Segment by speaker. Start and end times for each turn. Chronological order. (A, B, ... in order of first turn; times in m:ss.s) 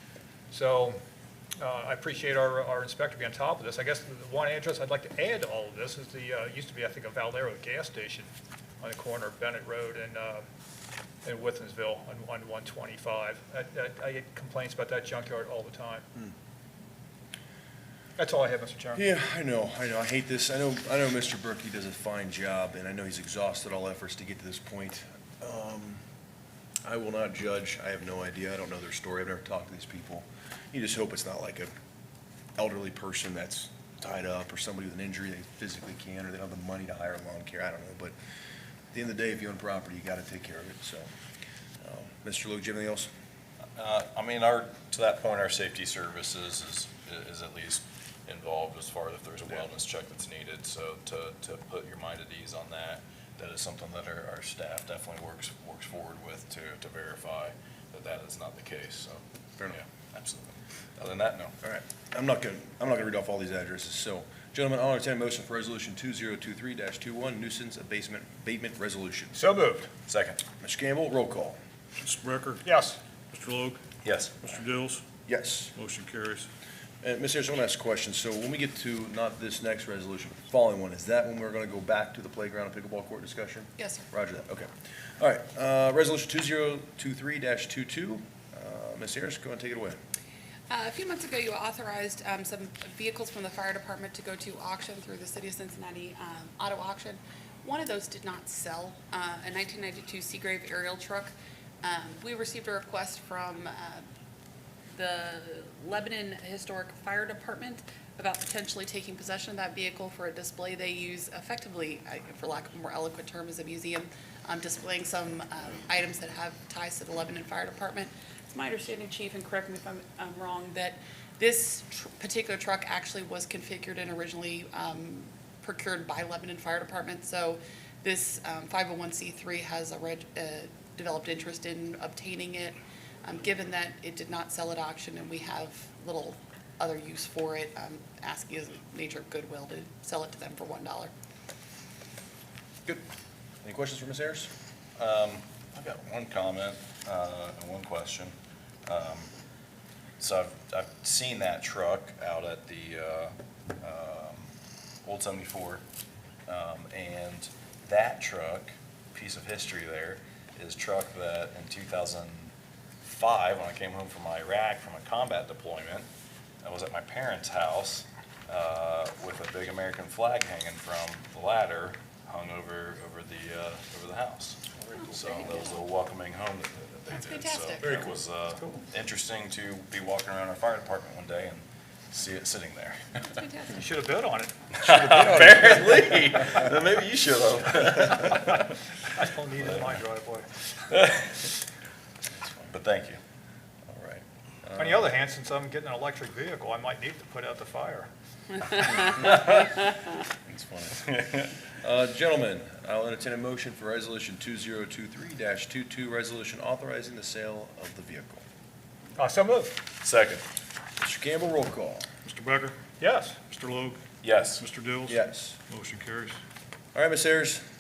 0:00.5-0:01.0 A
0:01.6-0:08.3 A
0:08.8-0:10.4 A
0:11.2-0:16.0 A
0:18.2-0:19.0 A
0:19.0-0:26.0 B
0:26.8-0:31.7 B
0:32.6-0:38.1 B
0:38.9-0:41.1 B
0:41.8-0:43.1 B
0:43.8-1:01.5 C
1:01.6-1:09.4 B
1:09.3-1:09.9 A
1:10.1-1:10.4 C
1:10.6-1:11.6 B
1:12.0-1:12.6 D
1:12.6-1:13.0 A
1:13.3-1:13.8 D
1:14.0-1:14.4 C
1:14.4-1:15.0 D
1:15.3-1:15.7 B
1:15.8-1:16.5 D
1:17.0-1:30.0 B
1:23.8-1:24.0 E
1:30.7-1:44.0 E
1:44.9-2:21.1 E
2:23.6-2:24.5 B
2:25.0-2:28.3 C
2:28.8-2:29.3 C
2:30.2-2:34.5 C
2:35.0-2:35.8 C
2:36.5-2:46.1 C
2:46.6-3:03.4 C
2:54.8-2:55.2 B
2:55.0-2:55.8 E
2:57.1-2:58.0 E
2:57.8-2:58.2 B
3:03.3-3:03.8 E
3:03.7-3:05.9 A
3:04.8-3:08.7 C
3:05.1-3:06.8 B
3:09.1-3:10.5 A
3:09.6-3:10.0 C
3:10.9-3:11.5 C
3:12.6-3:13.2 C
3:13.9-3:15.1 B
3:14.8-3:18.1 A
3:19.2-3:19.7 C
3:20.5-3:21.0 B
3:21.0-3:21.5 C
3:21.8-3:28.4 B
3:29.2-3:29.8 A
3:30.0-3:30.4 C
3:31.0-3:32.1 B
3:32.2-3:32.8 D
3:33.0-3:33.4 A
3:33.4-3:34.0 D
3:34.2-3:34.6 C
3:34.6-3:35.2 D
3:35.1-3:35.6 B
3:35.7-3:36.4 D
3:36.9-3:37.6 B